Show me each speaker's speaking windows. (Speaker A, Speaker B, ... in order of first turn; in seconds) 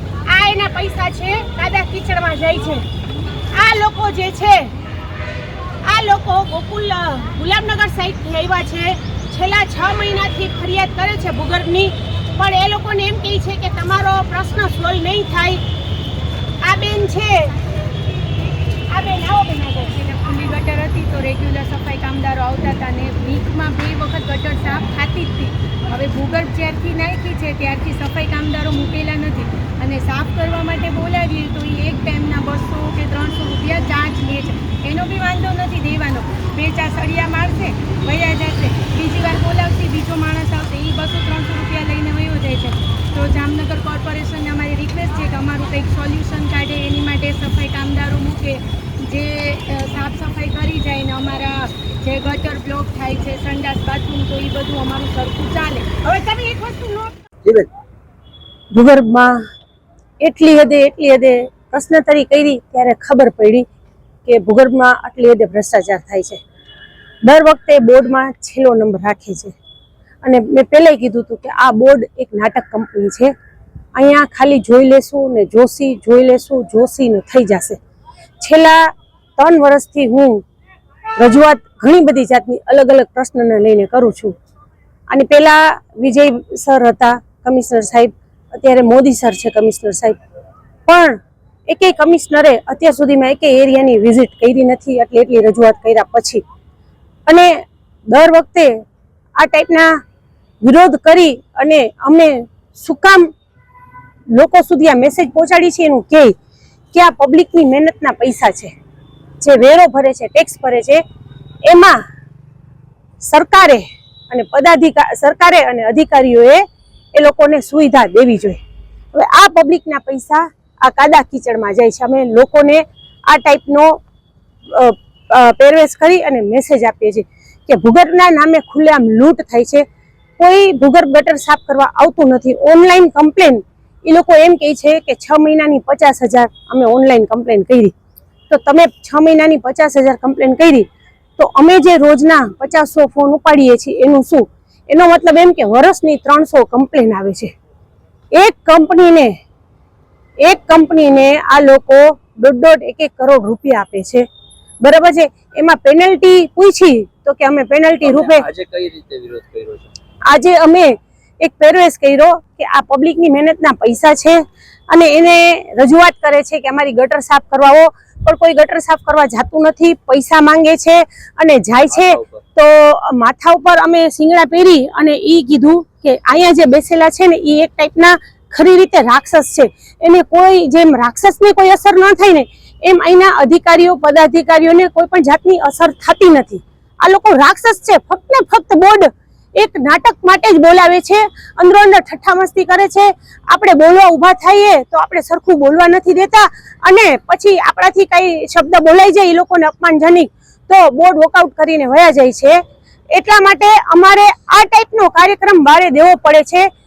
Speaker A: 0.3-2.8, 3.6-4.7, 5.8-15.6, 16.6-17.5, 18.9-19.8, 56.0-57.0, 138.9-139.4, 145.1-146.0, 155.0-155.9, 156.8-157.2, 157.7-158.4, 161.9-162.5, 164.1-164.3, 165.2-165.7, 167.2-167.8, 168.6-169.1, 170.2-170.9, 171.6-172.0, 175.5-175.9, 176.6-177.2, 178.8-179.6, 180.5-181.2
Speaker B: 19.5-56.6
Speaker C: 57.4-57.7, 158.0-159.9, 171.8-172.4
Speaker D: 58.7-59.3, 60.2-63.6, 64.3-66.3, 67.2-69.5, 70.2-73.3, 73.9-77.7, 78.4-78.7, 79.4-80.4, 81.2-84.3, 85.1-90.2, 90.9-91.1, 91.7-96.4, 98.1-98.7, 99.4-99.9, 100.6-103.2, 104.3-106.3, 106.9-108.7, 109.4-111.0, 111.7-111.9, 113.2-113.8, 114.3-116.6, 117.2-118.6, 119.1-122.8, 123.3-123.9, 124.7-129.8, 130.4-137.9, 138.6-140.8, 141.4-147.5, 148.4-149.3, 150.4-154.1, 154.8-158.1, 160.4-160.8, 161.4-164.2, 164.9-167.7, 168.2-170.9, 171.4-172.0, 172.6-186.5, 187.0-189.0, 189.6-202.5, 203.1-206.6